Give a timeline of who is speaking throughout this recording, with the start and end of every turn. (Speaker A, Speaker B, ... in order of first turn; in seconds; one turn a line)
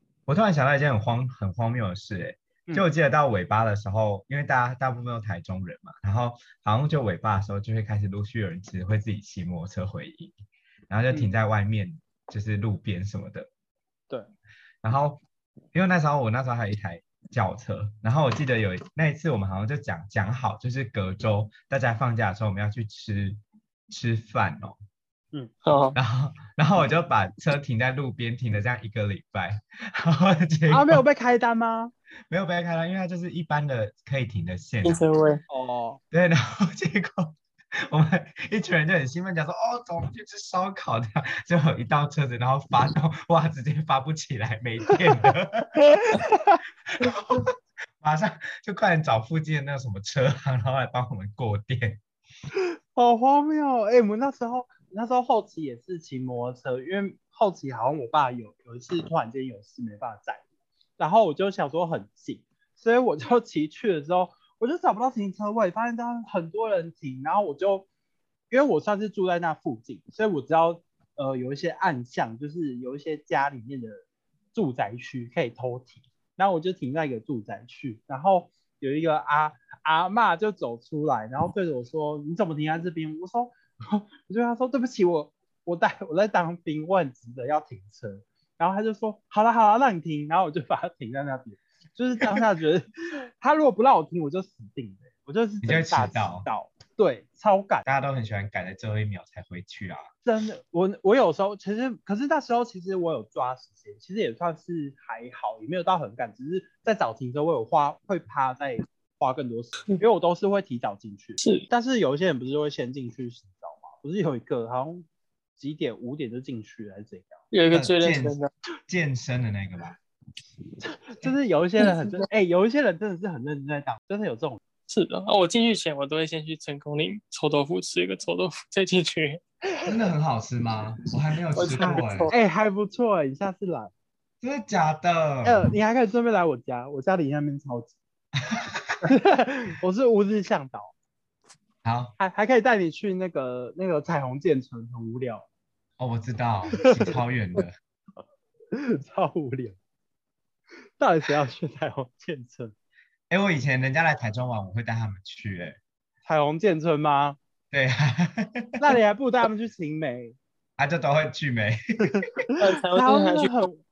Speaker A: 0.3-10.3
Speaker A: 10.9-13.5
Speaker A: 14.8-15.2
Speaker A: 15.7-24.8
Speaker B: 25.6-26.0
Speaker A: 25.9-31.0
Speaker C: 30.7-31.9
Speaker A: 32.3-35.0
Speaker B: 34.8-35.4
Speaker C: 35.5-36.0
Speaker A: 36.1-45.8
Speaker C: 46.0-46.6
Speaker A: 46.9-52.0
Speaker C: 52.6-60.4
Speaker C: 61.0-67.9
Speaker C: 68.5-74.0
Speaker C: 74.5-92.9
Speaker C: 93.4-97.8
Speaker A: 95.6-96.5
Speaker A: 97.8-100.1
Speaker C: 100.2-115.1
Speaker C: 115.6-117.4
Speaker B: 117.5-118.5
Speaker A: 117.7-118.4
Speaker A: 118.9-120.0
Speaker C: 120.8-124.6
Speaker B: 121.8-122.1
Speaker B: 124.9-129.4
Speaker A: 129.8-132.3
Speaker B: 131.5-132.3
Speaker C: 131.8-133.9
Speaker A: 134.4-135.7
Speaker C: 135.4-138.0
Speaker A: 138.4-139.1
Speaker C: 139.0-140.9
Speaker A: 141.8-142.2
Speaker C: 142.2-145.5
Speaker A: 146.0-147.7
Speaker C: 146.9-147.2
Speaker C: 148.7-149.8
Speaker C: 151.0-152.8
Speaker A: 153.3-155.8
Speaker C: 156.2-157.4
Speaker A: 157.7-158.8
Speaker C: 158.8-160.4
Speaker A: 160.8-162.0
Speaker C: 162.1-163.8
Speaker B: 162.6-163.5